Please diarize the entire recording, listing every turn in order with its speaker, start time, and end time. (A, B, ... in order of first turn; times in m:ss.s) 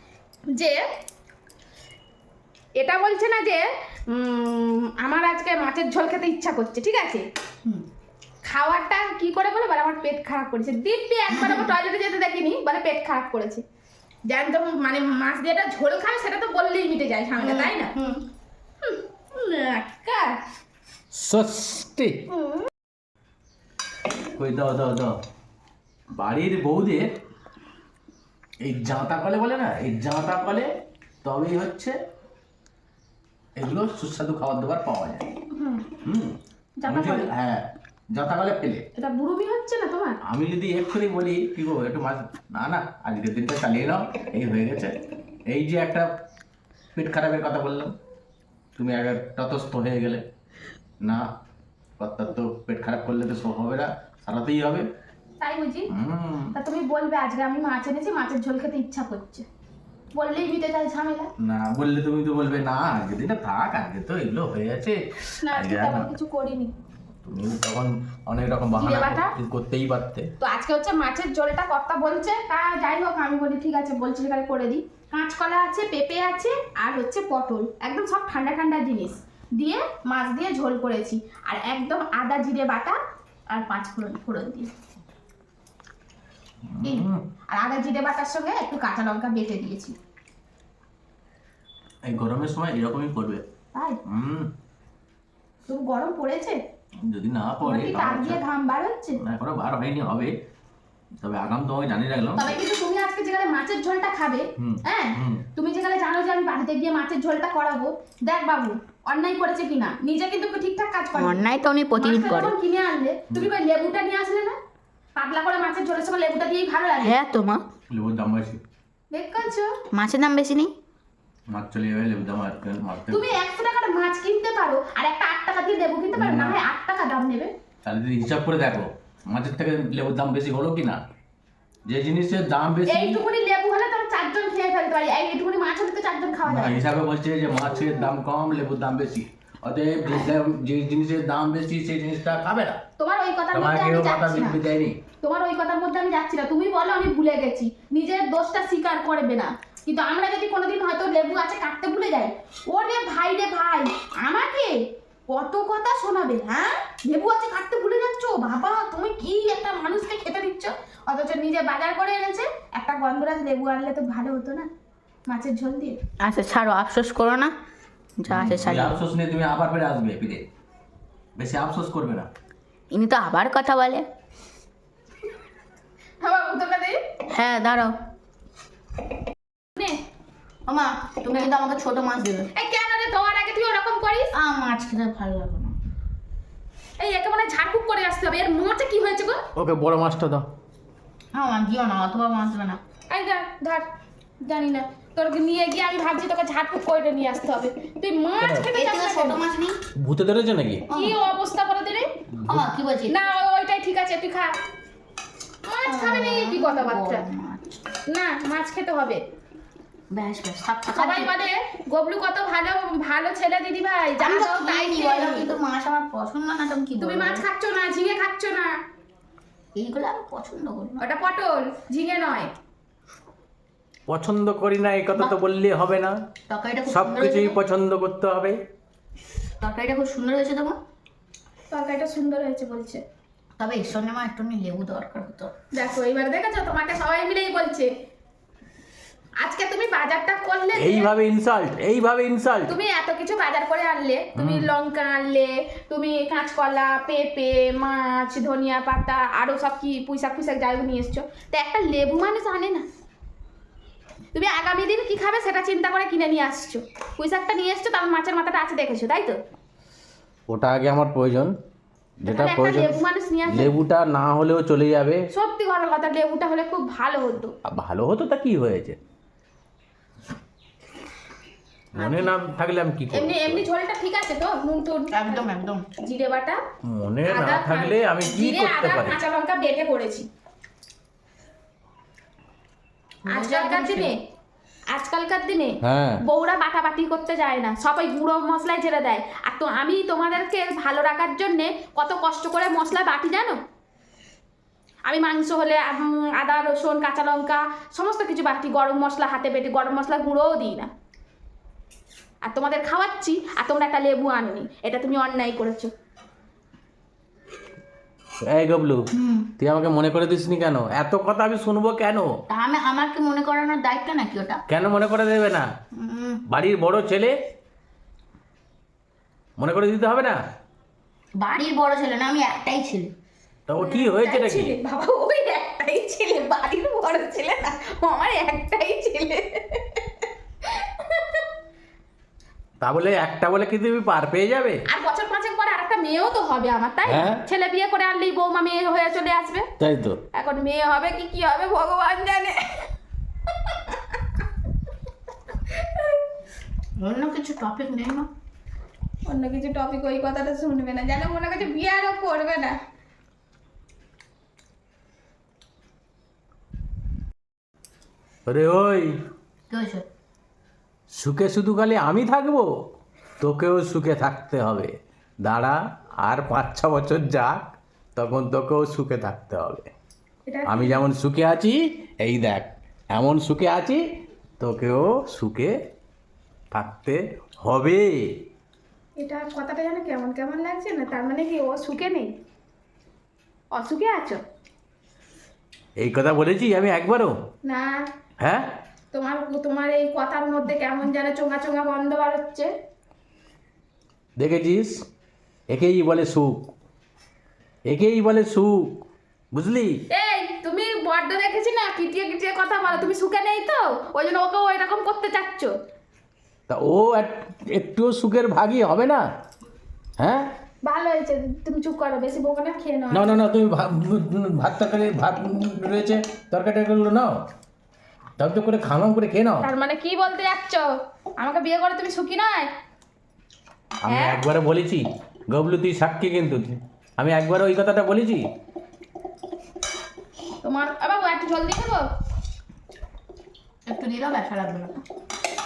0:00.5-0:00.8 A
0:02.8-0:07.2 A
0:08.4-0:13.6 A
0:11.3-0:11.7 B
0:14.3-0:18.0 A
0:17.4-0:18.2 B
0:18.8-0:20.4 A
0:21.1-0:22.2 C
0:22.3-0:22.7 A
0:24.4-0:25.2 C
0:26.1-0:27.1 C
0:28.6-0:30.7 C
0:31.2-0:32.0 C
0:33.6-0:35.3 C
0:35.5-0:35.9 A
0:36.0-0:38.8 C
0:36.8-0:37.3 A
0:39.0-0:40.2 A
0:40.2-0:45.0 C
0:45.5-0:46.2 C
0:47.0-0:48.0 C
0:48.8-0:50.3 C
0:51.0-0:51.3 C
0:52.0-0:54.9 C
0:55.4-0:55.9 A
0:55.9-0:56.6 C
0:56.5-0:59.5 A
1:00.1-1:01.3 A
1:01.4-1:06.1 C
1:05.4-1:06.7 A
1:07.2-1:10.3 C
1:08.8-1:09.4 A
1:10.4-1:23.0 A
1:23.5-1:24.7 A
1:26.6-1:27.2 C
1:26.8-1:30.0 A
1:32.0-1:33.4 C
1:33.8-1:34.0 A
1:34.0-1:34.5 C
1:35.7-1:36.6 A
1:37.0-1:38.4 C
1:37.6-1:39.2 A
1:39.2-1:40.4 C
1:41.2-1:42.6 C
1:42.4-1:51.4 A
1:44.6-1:45.4 C
1:51.2-1:52.5 B
1:52.0-1:54.6 A
1:55.2-1:57.2 A
1:57.0-1:57.6 B
1:57.9-1:58.6 C
1:59.1-1:59.8 A
1:59.9-2:00.7 B
2:01.5-2:03.3 C
2:03.1-2:07.5 A
2:06.1-2:06.6 C
2:07.8-2:11.0 C
2:11.9-2:13.2 C
2:12.9-2:16.9 A
2:16.5-2:22.8 C
2:23.0-2:24.6 A
2:23.5-2:25.0 C
2:25.2-2:44.7 A
2:45.3-2:46.0 A
2:46.2-2:47.5 B
2:48.2-2:49.0 B
2:48.3-2:50.4 C
2:51.4-2:52.3 C
2:52.9-2:54.1 B
2:56.2-2:57.0 A
2:57.3-2:57.9 B
3:00.7-3:02.5 B
3:02.5-3:04.3 A
3:04.3-3:05.8 B
3:07.0-3:09.4 A
3:09.6-3:10.5 C
3:11.3-3:12.8 B
3:13.1-3:13.9 A
3:14.4-3:19.5 A
3:18.6-3:19.8 B
3:20.0-3:20.9 C
3:20.9-3:21.2 B
3:20.9-3:22.1 A
3:22.3-3:22.7 C
3:22.5-3:23.2 B
3:23.1-3:24.6 A
3:25.6-3:27.2 A
3:25.9-3:27.8 B
3:28.1-3:29.2 A
3:30.1-3:31.3 B
3:30.9-3:35.5 A
3:34.2-3:37.4 B
3:37.0-3:38.8 A
3:39.8-3:41.0 B
3:41.0-3:42.5 A
3:44.1-3:46.2 C
3:46.5-3:47.6 B
3:46.9-3:48.6 C
3:49.6-3:50.8 B
3:51.7-3:53.0 A
3:53.6-3:55.5 B
3:55.7-3:57.9 A
3:59.4-4:01.1 A
4:00.7-4:02.8 C
4:02.7-4:12.8 A
4:04.4-4:04.7 C
4:14.3-4:19.4 A
4:20.5-4:21.6 C
4:22.2-4:25.3 C
4:22.3-4:23.8 A
4:25.3-4:27.6 A
4:27.6-4:29.0 C
4:31.9-4:33.7 C
4:32.0-4:32.3 A
4:33.1-4:36.6 A
4:35.1-4:35.9 B
4:36.8-4:39.2 C
4:37.3-4:40.3 A
4:43.2-4:44.1 B
4:43.3-4:44.2 A
4:44.9-4:53.6 A
4:45.8-4:46.2 C
4:55.0-5:00.9 A
5:02.4-5:05.9 A
5:08.4-5:09.1 C
5:09.1-5:09.5 B
5:09.6-5:12.4 C
5:12.5-5:14.6 B
5:14.7-5:15.7 C
5:15.9-5:16.4 B
5:16.5-5:17.4 C
5:19.6-5:20.4 C
5:21.4-5:23.1 B
5:23.7-5:24.8 C
5:23.8-5:31.5 A
5:32.8-5:34.8 C
5:34.9-5:39.7 A
5:37.1-5:37.4 C
5:39.8-5:40.2 C
5:40.3-5:42.9 A
5:43.6-5:44.2 A
5:45.7-5:46.2 A
5:47.0-5:48.3 B
5:49.3-5:52.8 A
5:58.5-5:59.2 C
5:59.7-6:00.0 B
6:01.1-6:02.7 C
6:03.4-6:09.9 C
6:10.5-6:11.0 A
6:10.7-6:14.0 C
6:14.6-6:15.8 C
6:16.7-6:18.4 C
6:19.2-6:22.4 A
6:23.7-6:24.4 A
6:26.0-6:27.4 C
6:27.6-6:28.1 A
6:28.4-6:28.7 C
6:29.1-6:32.7 A
6:34.4-6:35.1 C
6:35.7-6:36.7 C
6:37.9-6:40.0 C
6:40.1-6:45.7 A
6:46.7-6:49.3 C
6:50.2-6:50.5 C
6:50.8-6:53.4 A
6:53.1-6:57.5 C
6:58.4-6:59.7 C
6:59.6-7:02.7 A
7:04.0-7:08.5 C
7:04.1-7:04.4 A
7:10.6-7:12.1 A
7:13.9-7:15.0 B